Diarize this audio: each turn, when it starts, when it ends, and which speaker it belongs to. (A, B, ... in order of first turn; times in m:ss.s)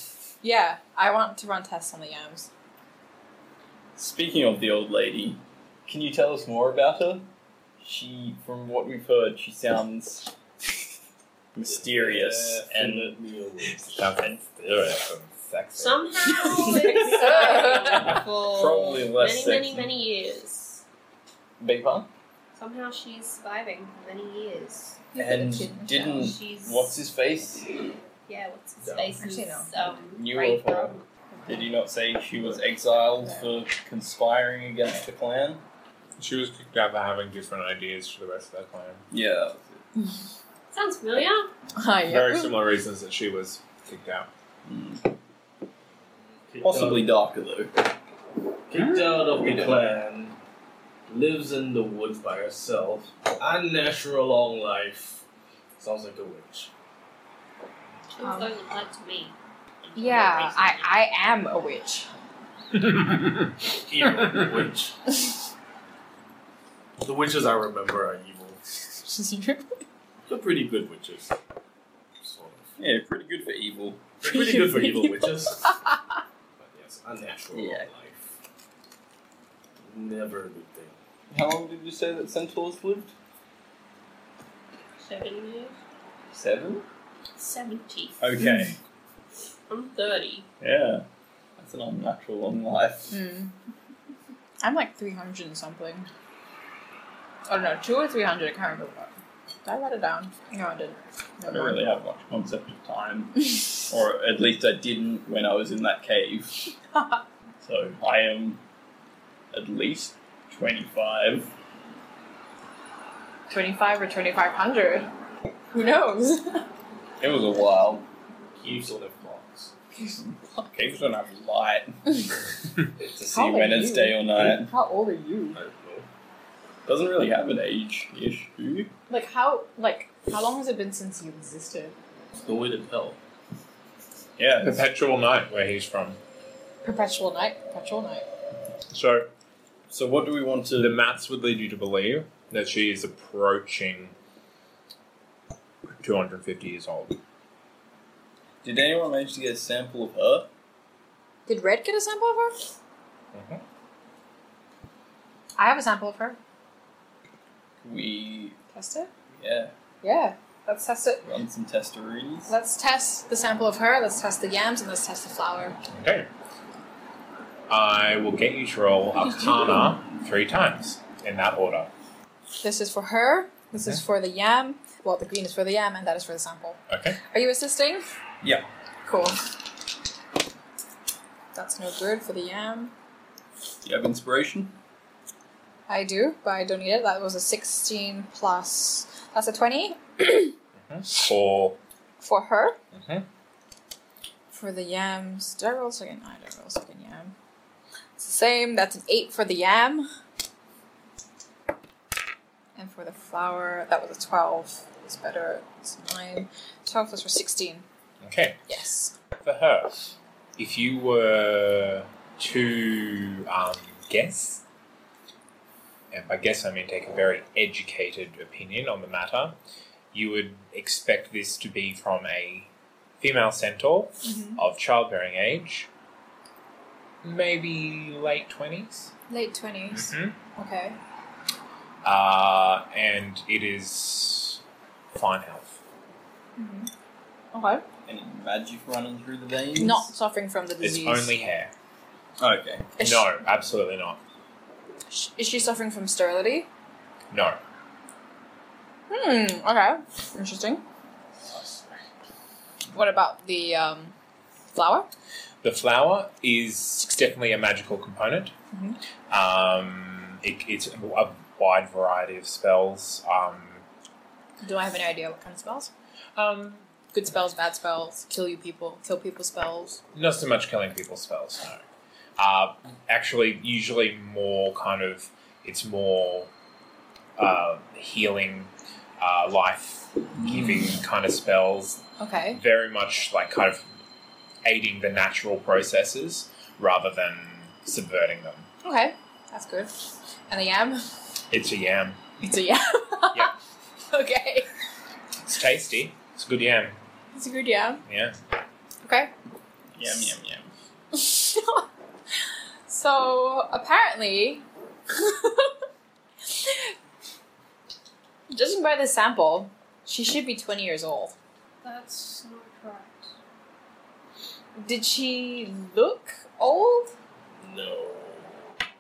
0:00.4-0:02.5 A
0:04.0-0:07.3 B
0:07.8-0:10.3 B
0:11.5-0:13.2 B
0:11.6-0:14.0 C
0:13.9-0:16.7 D
0:15.8-0:20.8 E
0:17.3-0:17.7 A
0:18.4-0:19.9 B
0:21.6-0:22.1 B
0:22.6-0:25.0 E
0:25.2-0:26.3 A
0:25.2-0:27.9 B
0:26.1-0:26.9 E
0:28.3-0:31.0 E
0:28.8-0:29.2 C
0:29.2-0:29.7 A
0:30.1-0:35.6 B
0:31.4-0:31.6 A
0:36.2-0:39.0 D
0:39.1-0:39.8 B
0:40.7-0:41.5 E
0:41.8-0:42.6 A
0:42.1-0:44.3 D
0:44.6-0:45.1 B
0:46.4-0:47.2 C
0:46.6-0:47.7 B
0:48.7-0:50.4 C
0:48.8-0:49.8 B
0:51.1-0:55.2 C
0:55.8-0:56.7 C
0:58.1-0:59.4 E
0:58.2-0:58.5 A
0:59.9-1:00.9 E
1:00.0-1:02.1 A
1:02.7-1:04.7 D
1:03.8-1:05.0 C
1:07.0-1:08.6 C
1:09.1-1:09.8 A
1:10.3-1:11.4 C
1:12.2-1:12.8 C
1:12.8-1:14.2 B
1:14.2-1:15.8 C
1:14.3-1:15.7 A
1:16.6-1:18.3 C
1:17.5-1:17.9 B
1:19.8-1:21.0 C
1:21.3-1:23.1 B
1:25.0-1:25.8 E
1:26.3-1:26.8 B
1:27.4-1:28.2 E
1:28.2-1:28.8 B
1:28.4-1:28.7 A
1:29.7-1:30.5 E
1:30.6-1:31.0 B
1:31.6-1:33.2 B
1:33.1-1:33.6 A
1:34.6-1:36.1 A
1:37.5-1:39.1 A
1:39.6-1:41.8 A
1:41.5-1:46.7 B
1:47.0-1:47.2 A
1:47.6-1:48.6 B
1:49.5-1:51.5 B
1:53.5-1:55.1 A
1:55.7-1:56.6 A
1:57.2-1:58.0 B
1:58.6-1:59.7 C
2:00.1-2:02.3 B
2:03.0-2:04.7 B
2:03.3-2:05.6 A
2:05.5-2:06.1 C
2:06.9-2:08.9 B
2:09.1-2:12.0 A
2:12.4-2:13.2 C
2:14.4-2:14.8 B
2:14.6-2:16.2 D
2:16.8-2:18.3 A
2:18.9-2:19.3 D
2:19.9-2:21.0 B
2:20.8-2:24.1 D
2:26.0-2:27.2 D
2:28.6-2:30.5 B
2:31.5-2:32.7 A
2:33.3-2:33.6 D
2:35.6-2:36.4 A
2:37.8-2:38.6 B
2:38.7-2:39.1 A
2:39.4-2:39.7 B
2:40.0-2:41.2 A
2:41.2-2:42.5 B
2:42.5-2:45.8 A
2:45.9-2:46.3 D
2:47.7-2:51.9 D
2:52.6-2:58.0 A
2:53.8-2:54.0 D
2:56.9-2:57.2 D
2:59.1-2:59.4 A
3:01.5-3:02.9 A
3:03.8-3:04.7 B
3:05.9-3:10.5 A
3:10.9-3:11.8 D
3:12.2-3:12.8 A
3:12.9-3:13.3 D
3:14.5-3:17.3 A
3:18.2-3:20.1 A
3:22.8-3:27.8 A
3:28.2-3:28.6 D
3:28.7-3:29.1 A
3:29.4-3:34.6 D
3:36.1-3:39.6 D
3:40.1-3:42.7 D
3:43.2-3:45.9 D
3:44.2-3:44.6 A
3:47.2-3:49.1 D
3:49.3-3:51.0 A
3:49.9-3:50.4 D
3:52.0-3:54.6 D
3:55.1-3:55.8 D
3:56.6-3:56.9 A
3:57.5-3:57.8 A
3:58.1-4:00.1 B
3:59.8-4:01.3 A
4:00.8-4:01.7 D
4:02.4-4:02.9 B
4:03.0-4:03.3 A
4:03.0-4:04.2 D
4:05.1-4:06.7 A
4:07.3-4:07.6 D
4:09.1-4:10.8 A
4:12.9-4:14.1 A
4:14.7-4:15.1 A
4:15.6-4:18.5 D
4:18.7-4:19.0 A
4:19.3-4:23.8 D
4:24.6-4:25.9 A
4:26.4-4:26.8 D
4:27.1-4:30.0 A
4:30.1-4:31.8 D
4:32.4-4:36.5 D
4:37.4-4:43.9 D
4:42.2-4:42.6 A
4:44.6-4:48.7 D
4:48.8-4:51.0 A
4:51.5-4:52.2 D
4:52.4-4:53.5 A
4:54.1-4:54.7 A
4:55.4-4:57.0 D
4:57.3-4:58.0 A
4:58.1-4:58.4 D
4:59.0-4:59.3 A
5:00.0-5:00.7 B
5:01.1-5:01.9 A
5:02.9-5:05.7 A
5:06.5-5:06.9 A
5:08.5-5:11.4 A
5:11.8-5:13.3 E
5:14.8-5:17.1 A
5:17.6-5:18.5 C